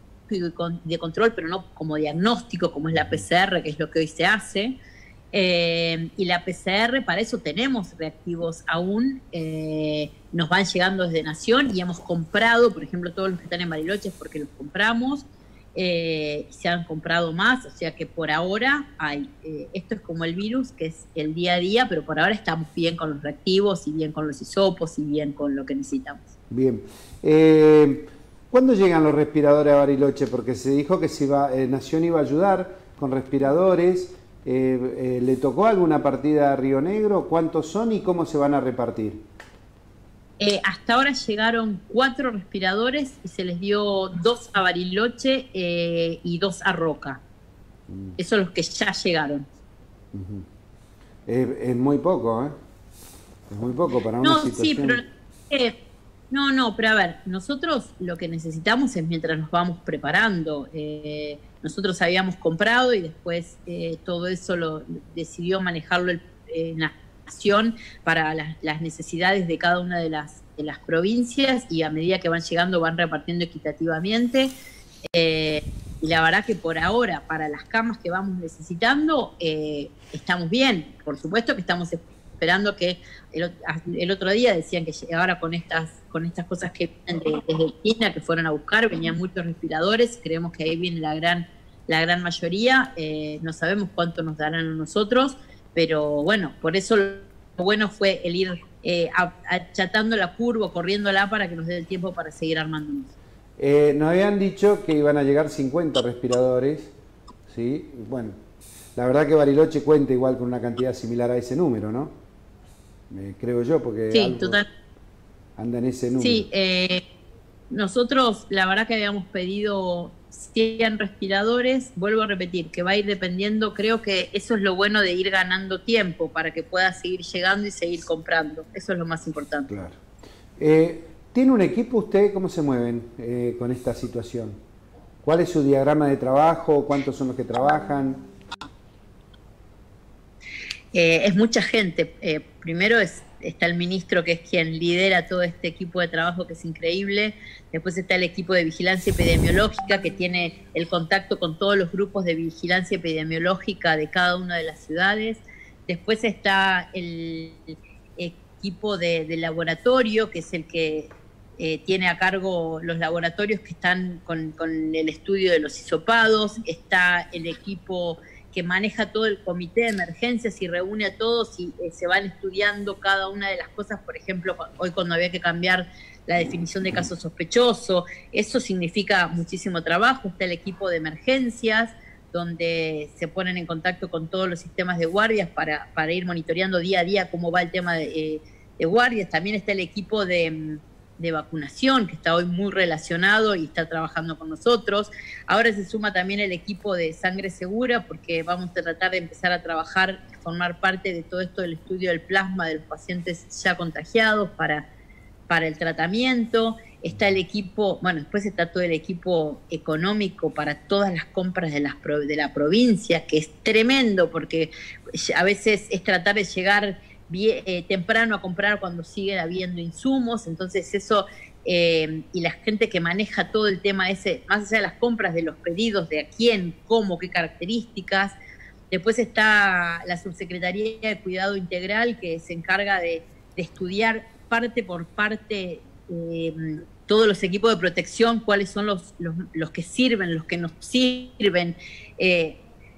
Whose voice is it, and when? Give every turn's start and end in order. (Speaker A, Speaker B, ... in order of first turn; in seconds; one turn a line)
Speaker A: 0.3-4.8
Speaker A: 5.3-26.3
Speaker B: 26.5-39.2
Speaker A: 40.4-47.2
Speaker B: 47.9-48.2
Speaker A: 48.2-49.5
Speaker B: 50.1-50.5
Speaker B: 51.3-52.5
Speaker B: 53.5-55.0
Speaker A: 54.2-55.8
Speaker A: 56.3-74.5
Speaker A: 75.1-103.1
Speaker B: 103.6-106.9
Speaker B: 107.5-108.3
Speaker B: 109.0-112.1
Speaker B: 113.1-114.6
Speaker A: 114.1-114.7
Speaker B: 115.6-116.5
Speaker A: 116.2-117.0
Speaker A: 117.7-129.7
Speaker B: 129.7-130.0
Speaker B: 130.6-134.6
Speaker B: 135.2-138.2
Speaker A: 140.9-204.9
Speaker A: 205.5-228.4
Speaker A: 228.9-242.6